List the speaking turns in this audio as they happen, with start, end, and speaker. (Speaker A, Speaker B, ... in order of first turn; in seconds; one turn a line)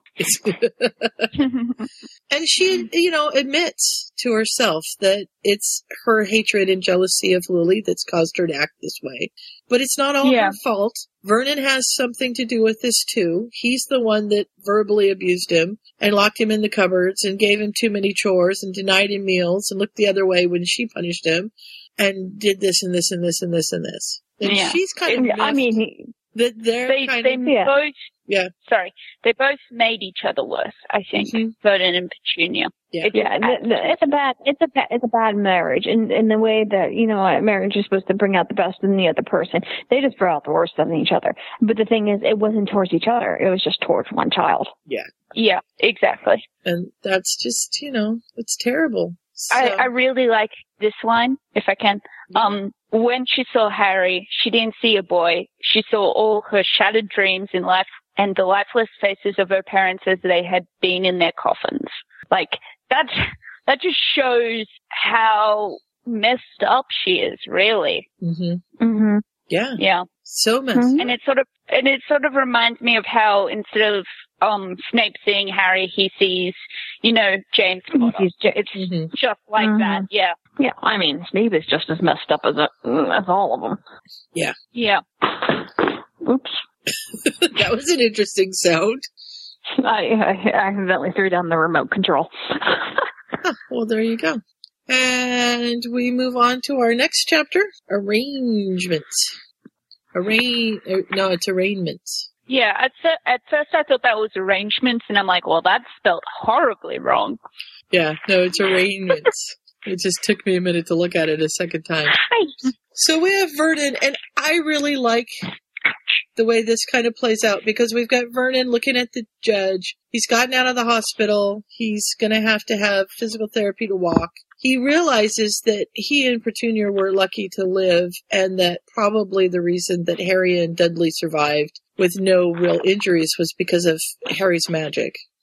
Speaker A: 0.2-1.3
Speaker B: 1.4-1.9
Speaker A: 2.3-25.8
Speaker B: 10.2-10.6
Speaker B: 24.4-24.8
Speaker C: 25.1-26.1
Speaker A: 26.3-27.5
Speaker B: 26.9-27.9
Speaker C: 27.4-27.7
Speaker B: 28.6-34.0
Speaker A: 31.2-31.5
Speaker C: 33.1-44.7
Speaker B: 45.3-46.4
Speaker A: 46.6-49.9
Speaker B: 49.5-68.0
Speaker A: 68.2-68.6
Speaker C: 68.8-69.2
Speaker A: 69.5-71.1
Speaker B: 69.8-70.1
Speaker C: 70.7-71.0
Speaker B: 71.0-78.3
Speaker C: 77.9-78.8
Speaker A: 78.8-79.1
Speaker B: 79.1-80.3
Speaker C: 79.6-80.0
Speaker C: 80.6-83.8
Speaker B: 84.7-85.0
Speaker C: 86.2-86.6
Speaker A: 87.2-89.0
Speaker C: 89.8-93.1
Speaker A: 93.4-99.3
Speaker A: 100.1-102.3
Speaker B: 102.5-107.4
Speaker A: 107.9-112.2
Speaker C: 112.3-112.5
Speaker A: 112.9-115.4
Speaker A: 116.4-135.2